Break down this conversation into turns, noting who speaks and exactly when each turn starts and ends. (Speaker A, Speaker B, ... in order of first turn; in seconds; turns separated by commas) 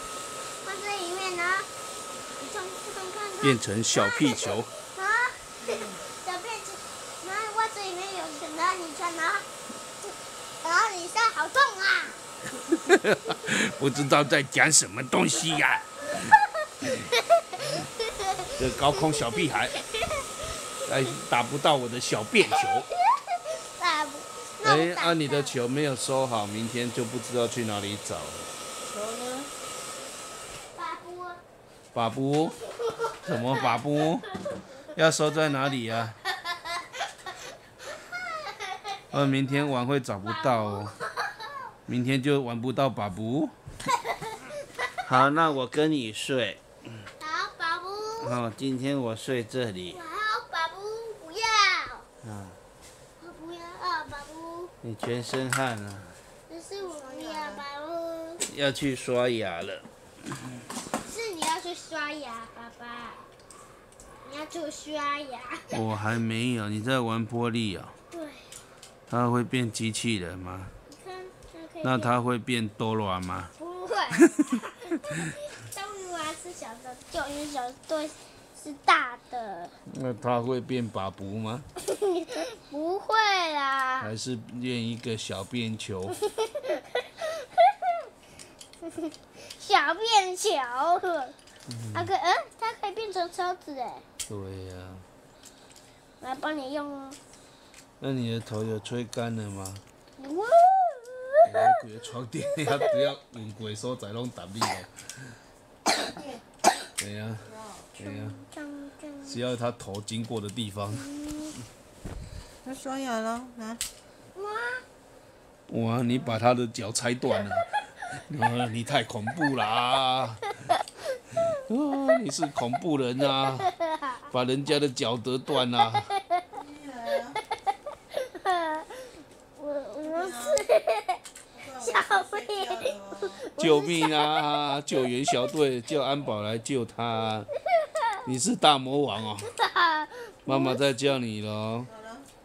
Speaker A: 0.6-1.7, Speaker A: 2.4-9.4, Speaker B: 3.4-4.7, Speaker C: 5.6-6.0, Speaker A: 10.1-12.2, Speaker B: 12.7-16.3, Speaker A: 16.1-20.4, Speaker B: 18.6-19.8, Speaker B: 20.8-22.9, Speaker A: 22.5-25.6, Speaker B: 24.6-28.5, Speaker C: 28.9-29.5, Speaker A: 30.7-31.4, Speaker B: 31.9-32.5, Speaker A: 32.9-34.6, Speaker B: 33.2-34.2, Speaker B: 34.9-36.2, Speaker A: 36.5-36.7, Speaker A: 37.9-39.6, Speaker B: 39.1-40.9, Speaker A: 40.2-41.7, Speaker B: 41.9-43.5, Speaker A: 43.9-44.9, Speaker B: 45.0-46.6, Speaker A: 47.2-48.4, Speaker B: 48.2-50.0, Speaker A: 49.9-52.1, Speaker B: 52.2-52.6, Speaker A: 53.2-54.7, Speaker B: 54.8-56.2, Speaker A: 56.5-58.4, Speaker C: 56.9-57.6, Speaker B: 58.4-59.9, Speaker A: 61.0-63.2, Speaker A: 64.2-65.8, Speaker B: 65.7-67.9, Speaker A: 68.1-68.5, Speaker B: 69.1-70.7, Speaker A: 70.9-72.2, Speaker B: 71.8-73.5, Speaker A: 73.5-79.8, Speaker B: 79.9-81.7, Speaker A: 81.8-84.1, Speaker B: 84.0-86.2, Speaker A: 86.2-87.9, Speaker A: 88.8-91.3, Speaker B: 91.7-92.1, Speaker A: 91.9-94.0, Speaker B: 94.3-95.0, Speaker A: 96.2-97.2, Speaker B: 98.0-99.8, Speaker A: 100.2-101.8, Speaker B: 101.4-105.3, Speaker A: 102.6-102.9, Speaker B: 107.0-108.4, Speaker C: 107.5-107.8, Speaker A: 108.0-109.4, Speaker B: 109.2-111.1, Speaker A: 110.9-111.5, Speaker C: 112.6-113.8, Speaker A: 114.3-114.8, Speaker B: 115.7-120.5, Speaker B: 121.5-123.7, Speaker A: 123.4-124.3, Speaker B: 124.3-126.1, Speaker A: 126.1-126.6, Speaker C: 126.5-127.4, Speaker A: 128.1-135.0, Speaker C: 130.0-130.6, Speaker C: 131.5-133.4, Speaker B: 133.6-137.5, Speaker A: 137.8-138.2, Speaker B: 138.2-139.5, Speaker A: 139.5-140.8, Speaker B: 140.4-141.9, Speaker C: 141.9-142.2